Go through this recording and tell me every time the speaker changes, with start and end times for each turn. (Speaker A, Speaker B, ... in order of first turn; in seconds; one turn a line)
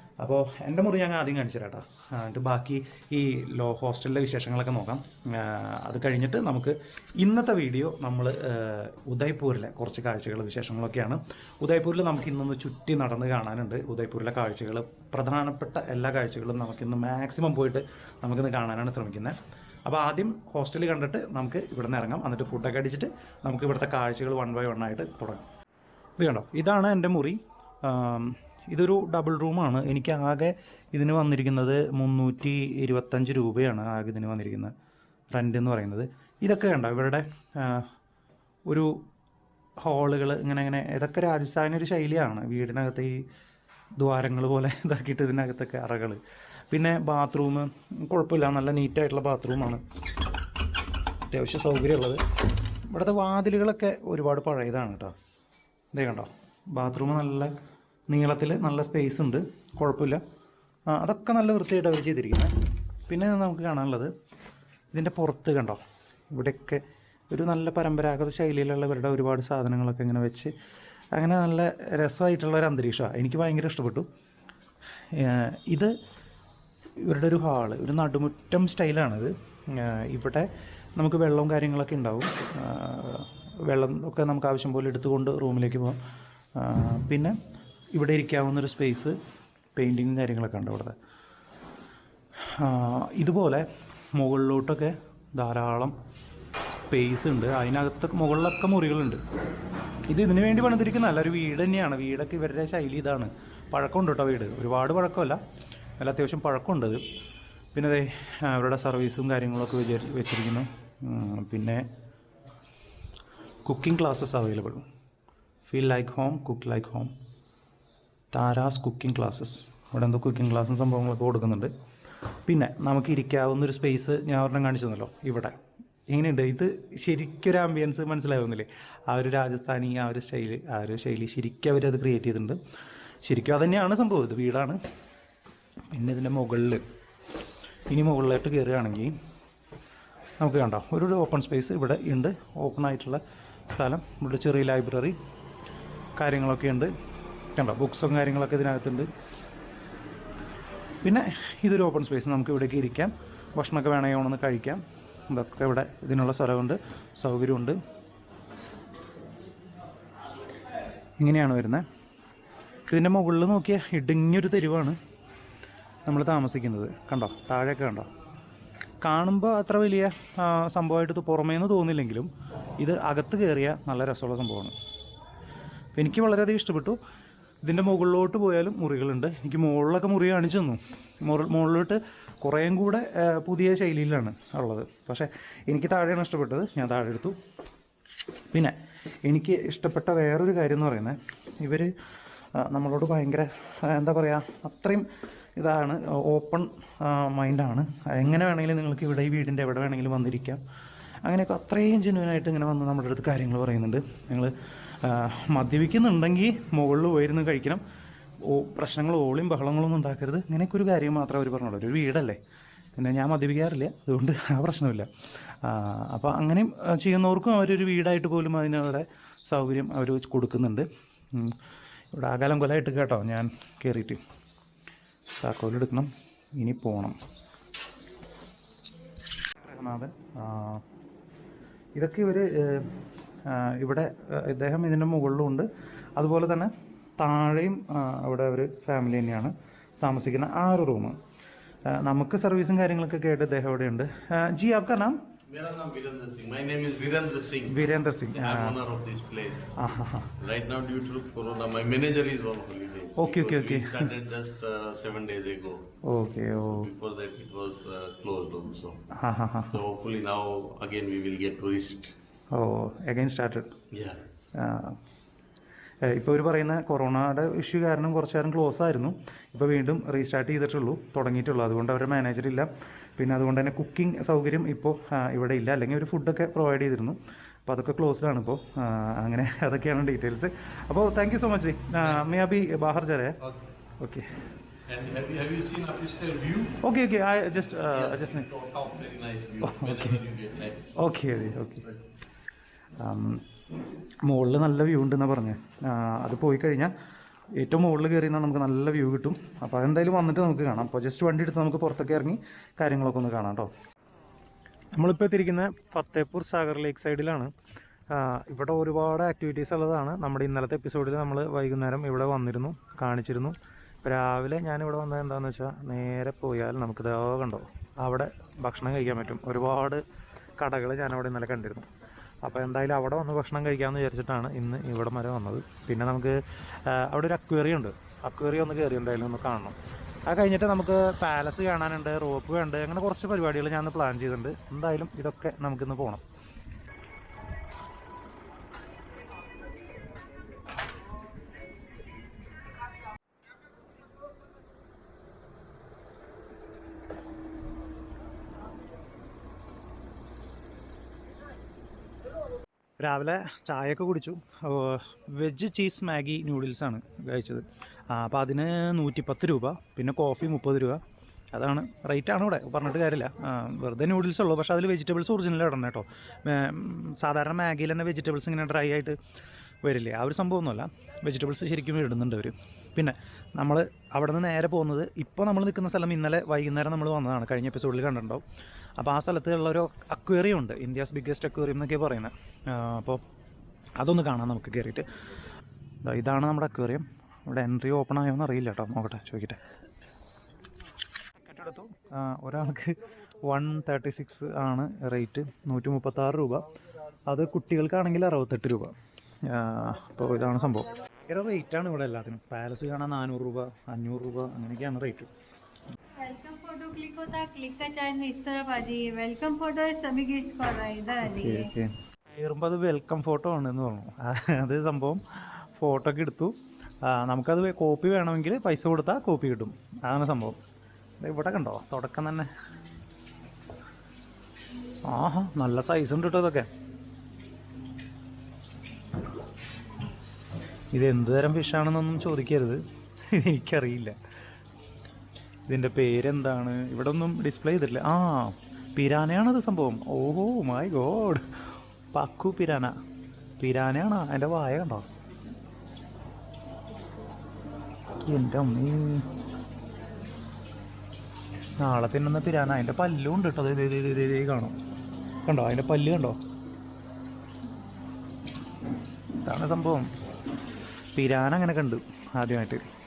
Speaker A: 0.2-25.4
Speaker A: 26.2-34.7
Speaker A: 35.3-37.9
Speaker A: 38.7-39.0
Speaker A: 39.8-43.2
Speaker A: 44.0-46.2
Speaker A: 46.7-49.8
Speaker A: 51.3-52.2
Speaker A: 52.9-55.1
Speaker A: 55.9-57.5
Speaker A: 58.1-60.2
Speaker A: 60.9-62.5
Speaker A: 63.1-64.1
Speaker A: 64.9-65.8
Speaker A: 66.3-70.5
Speaker A: 71.1-74.1
Speaker A: 75.1-75.9
Speaker A: 77.0-86.0
Speaker A: 86.6-87.3
Speaker A: 87.9-89.2
Speaker A: 89.8-91.0
Speaker A: 92.5-95.9
Speaker A: 96.9-99.2
Speaker A: 100.1-105.4
Speaker A: 106.0-107.0
Speaker A: 107.7-111.8
Speaker A: 113.6-114.8
Speaker A: 115.7-117.1
Speaker A: 118.3-121.7
Speaker A: 122.5-125.5
Speaker A: 126.1-132.6
Speaker A: 133.2-134.8
Speaker A: 135.9-136.8
Speaker A: 137.9-139.1
Speaker A: 140.4-145.2
Speaker A: 146.2-146.9
Speaker A: 147.5-149.1
Speaker A: 151.0-157.8
Speaker A: 161.2-161.8
Speaker A: 162.9-165.0
Speaker A: 166.1-168.1
Speaker A: 169.0-174.7
Speaker A: 175.9-177.0
Speaker A: 177.6-187.3
Speaker A: 188.5-191.9
Speaker A: 192.6-195.1
Speaker A: 195.6-200.6
Speaker A: 201.2-207.8
Speaker A: 208.4-212.4
Speaker A: 213.0-215.1
Speaker A: 215.6-221.6
Speaker A: 222.1-224.2
Speaker A: 225.4-227.2
Speaker A: 229.6-230.8
Speaker A: 231.9-232.9
Speaker A: 233.4-241.2
Speaker A: 241.9-245.2
Speaker B: 245.5-249.8
Speaker A: 247.7-248.8
Speaker A: 249.8-250.3
Speaker B: 250.4-255.9
Speaker A: 253.2-254.1
Speaker A: 256.0-256.9
Speaker B: 256.6-259.0
Speaker A: 259.1-259.8
Speaker B: 259.7-262.1
Speaker A: 262.5-263.7
Speaker B: 263.9-264.4
Speaker A: 264.6-265.0
Speaker A: 266.0-283.4
Speaker B: 282.0-282.3
Speaker A: 284.0-284.3
Speaker B: 284.9-286.8
Speaker A: 286.8-288.5
Speaker B: 287.7-290.9
Speaker A: 289.6-290.2
Speaker A: 290.9-291.8
Speaker A: 293.0-293.4
Speaker A: 294.2-296.9
Speaker A: 297.6-303.7
Speaker A: 304.9-307.5
Speaker A: 308.1-320.0
Speaker A: 320.6-321.9
Speaker A: 322.4-329.8
Speaker A: 330.3-336.2
Speaker A: 353.0-361.0
Speaker A: 361.5-369.1
Speaker A: 369.8-378.4
Speaker A: 379.0-383.2
Speaker A: 384.0-385.1
Speaker A: 386.0-389.6
Speaker A: 391.4-396.6
Speaker A: 397.3-398.9
Speaker A: 399.4-405.3
Speaker C: 406.2-411.7
Speaker A: 411.2-420.6
Speaker A: 421.2-422.5
Speaker A: 425.1-426.7
Speaker A: 430.9-434.1
Speaker A: 435.7-441.5
Speaker A: 442.1-442.9
Speaker A: 443.6-445.1
Speaker A: 448.2-449.2
Speaker A: 451.8-454.7
Speaker A: 455.4-456.4
Speaker A: 459.4-460.1
Speaker A: 461.1-462.8